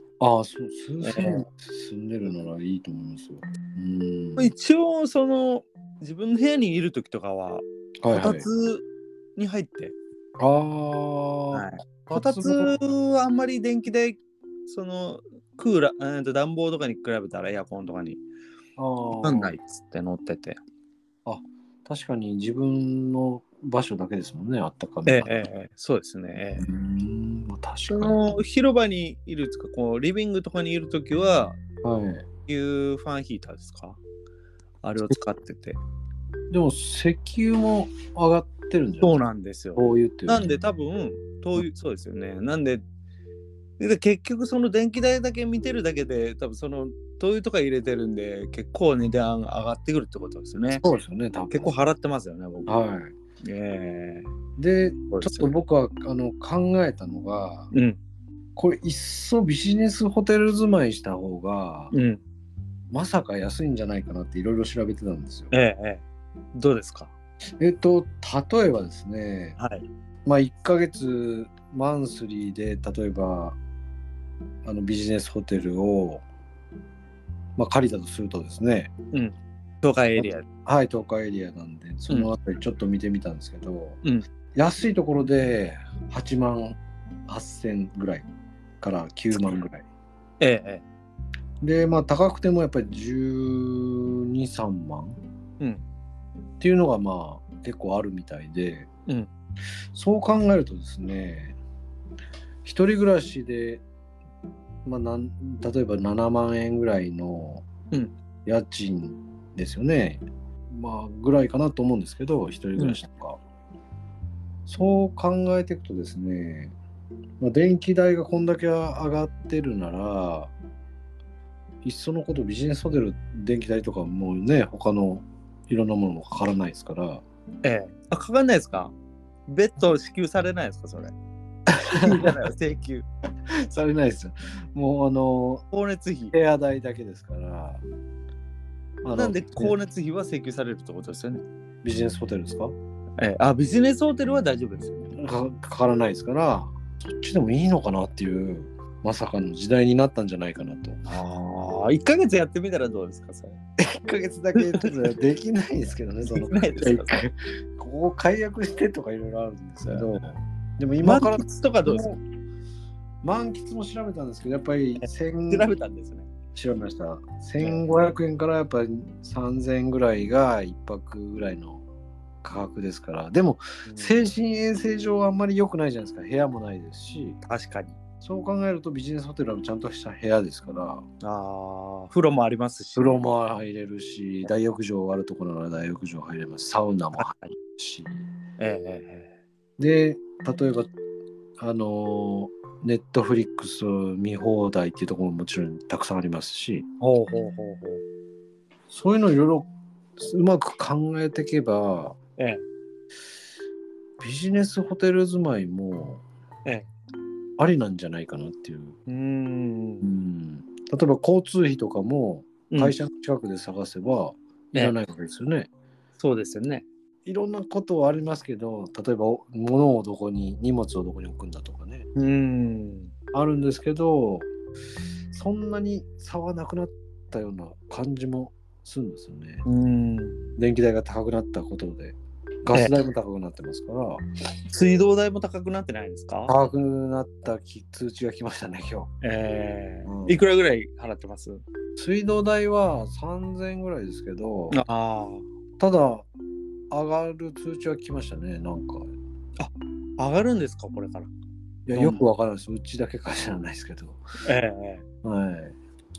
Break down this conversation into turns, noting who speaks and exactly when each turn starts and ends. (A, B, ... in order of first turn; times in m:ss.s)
0:00.2-0:04.5 A
0:01.0-0:01.4 B
0:04.4-0:08.8 B
0:08.0-0:08.5 A
0:09.4-0:09.9 B
0:10.4-0:12.8 A
0:11.5-0:18.2 B
0:18.8-0:19.5 A
0:19.1-0:20.6 B
0:21.2-0:25.4 A
0:25.0-0:26.7 B
0:26.6-0:28.4 A
0:27.9-0:31.6 B
0:31.8-0:32.2 A
0:32.4-0:34.0 B
0:34.8-0:35.8 B
0:36.5-0:39.2 A
0:39.0-0:42.8 B
0:39.7-0:40.6 A
0:43.8-0:50.8 B
0:50.7-0:51.8 A
0:51.5-0:52.8 B
0:52.7-0:53.1 A
0:53.4-0:54.3 B
0:54.6-0:57.7 A
0:55.1-0:55.5 B
0:57.7-0:58.0 B
0:58.6-1:01.9 A
1:01.9-1:02.2 B
1:02.9-1:05.5 A
1:05.5-1:06.0 B
1:06.5-1:07.1 B
1:07.6-1:09.6 A
1:09.6-1:09.8 B
1:10.2-1:13.6 A
1:14.6-1:16.2 A
1:17.6-1:18.9 A
1:19.1-1:20.4 B
1:20.2-1:24.0 A
1:24.5-1:28.2 A
1:28.8-1:29.8 A
1:29.3-1:29.6 B
1:30.4-1:30.8 B
1:31.6-1:35.2 A
1:36.6-1:38.9 A
1:39.9-1:41.6 A
1:42.6-1:43.8 A
1:44.8-1:47.6 A
1:48.4-1:53.4 A
1:54.7-1:56.8 A
1:57.4-2:00.5 A
2:01.8-2:07.2 A
2:07.6-2:08.9 B
2:09.5-2:11.1 B
2:11.7-2:12.4 A
2:12.0-2:13.0 B
2:13.5-2:15.6 A
2:15.7-2:16.3 B
2:16.3-2:17.8 A
2:19.0-2:19.8 A
2:19.1-2:21.4 B
2:21.8-2:22.7 A
2:23.2-2:25.1 B
2:25.1-2:31.0 A
2:31.0-2:33.6 B
2:33.8-2:42.2 A
2:34.5-2:34.9 B
2:36.2-2:37.2 B
2:41.0-2:42.2 B
2:43.2-2:45.7 A
2:45.0-2:46.3 B
2:46.5-2:51.8 A
2:47.6-2:47.9 B
2:52.4-2:57.4 A
2:53.8-2:54.2 B
2:57.4-2:58.0 B
2:58.2-3:01.0 A
3:01.2-3:03.2 B
3:02.9-3:08.2 A
3:07.2-3:07.5 B
3:08.6-3:09.3 B
3:09.8-3:10.9 A
3:11.6-3:16.9 A
3:17.0-3:18.0 B
3:18.9-3:22.2 A
3:22.4-3:22.6 B
3:24.2-3:26.2 A
3:27.6-3:29.0 A
3:29.1-3:30.1 B
3:30.0-3:35.7 A
3:32.7-3:33.0 B
3:36.2-3:36.8 B
3:37.2-3:42.0 A
3:42.1-3:43.1 B
3:43.3-3:44.5 A
3:45.3-3:49.6 A
3:49.6-3:50.5 B
3:50.6-3:54.2 A
3:54.7-3:56.6 B
3:56.5-3:59.1 A
3:59.2-4:01.6 B
4:00.0-4:00.4 A
4:02.0-4:04.8 A
4:04.7-4:05.4 B
4:05.8-4:06.3 A
4:06.9-4:09.1 A
4:09.6-4:11.3 B
4:11.8-4:14.2 A
4:11.9-4:12.2 B
4:14.4-4:15.0 B
4:15.2-4:15.8 A